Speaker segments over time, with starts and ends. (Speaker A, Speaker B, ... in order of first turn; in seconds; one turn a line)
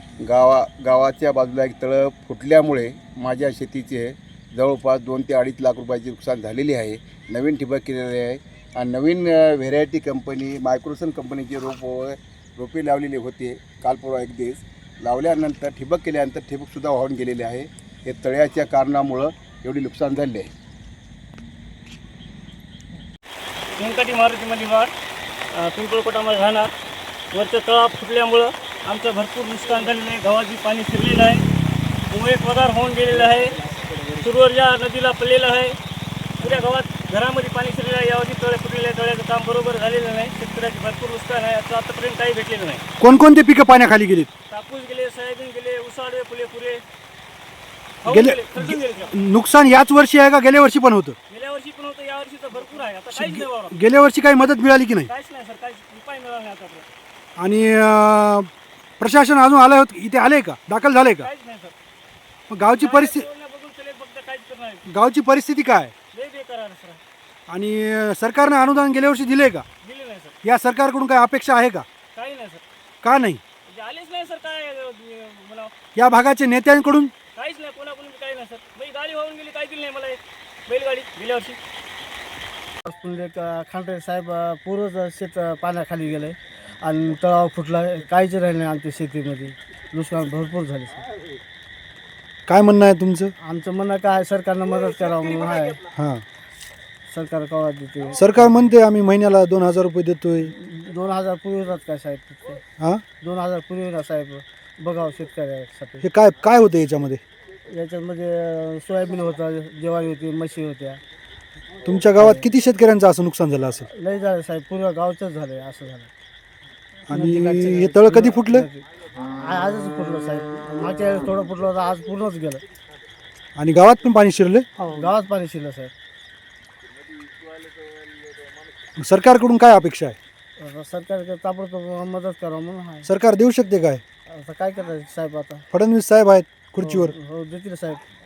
Speaker A: 0.2-20.5
Speaker B: 23.8-24.9
Speaker B: 25.5-26.7
Speaker B: 27.3-31.4
Speaker B: 32.1-33.6
Speaker B: 34.2-35.8
Speaker B: 36.4-42.8
Speaker C: 43.0-44.3
Speaker B: 44.5-46.8
Speaker B: 48.0-49.1
Speaker C: 48.0-51.2
Speaker B: 51.3-53.7
Speaker C: 53.1-55.1
Speaker B: 55.1-56.9
Speaker C: 57.4-61.3
Speaker B: 61.2-61.7
Speaker C: 62.5-63.3
Speaker B: 62.8-64.8
Speaker C: 64.9-65.9
Speaker B: 66.1-67.0
Speaker C: 67.5-69.7
Speaker B: 69.8-70.3
Speaker C: 70.4-71.9
Speaker B: 72.1-72.6
Speaker C: 73.0-73.4
Speaker B: 73.7-75.7
Speaker C: 76.0-77.1
Speaker B: 77.4-81.6
Speaker D: 82.8-91.1
Speaker C: 92.5-93.3
Speaker D: 93.4-95.8
Speaker C: 95.9-96.2
Speaker D: 97.1-98.5
Speaker C: 98.2-100.5
Speaker D: 100.6-102.6
Speaker D: 103.2-106.0
Speaker C: 106.0-107.2
Speaker D: 107.7-111.0
Speaker C: 111.8-113.9
Speaker D: 112.2-112.5
Speaker D: 113.9-116.1
Speaker C: 117.1-118.7
Speaker D: 117.1-118.8
Speaker D: 119.4-122.6
Speaker C: 123.6-124.7
Speaker D: 124.8-125.9
Speaker C: 129.0-130.2
Speaker D: 130.6-133.1
Speaker C: 133.1-134.0
Speaker D: 134.3-135.7
Speaker C: 135.7-137.2
Speaker D: 136.8-138.0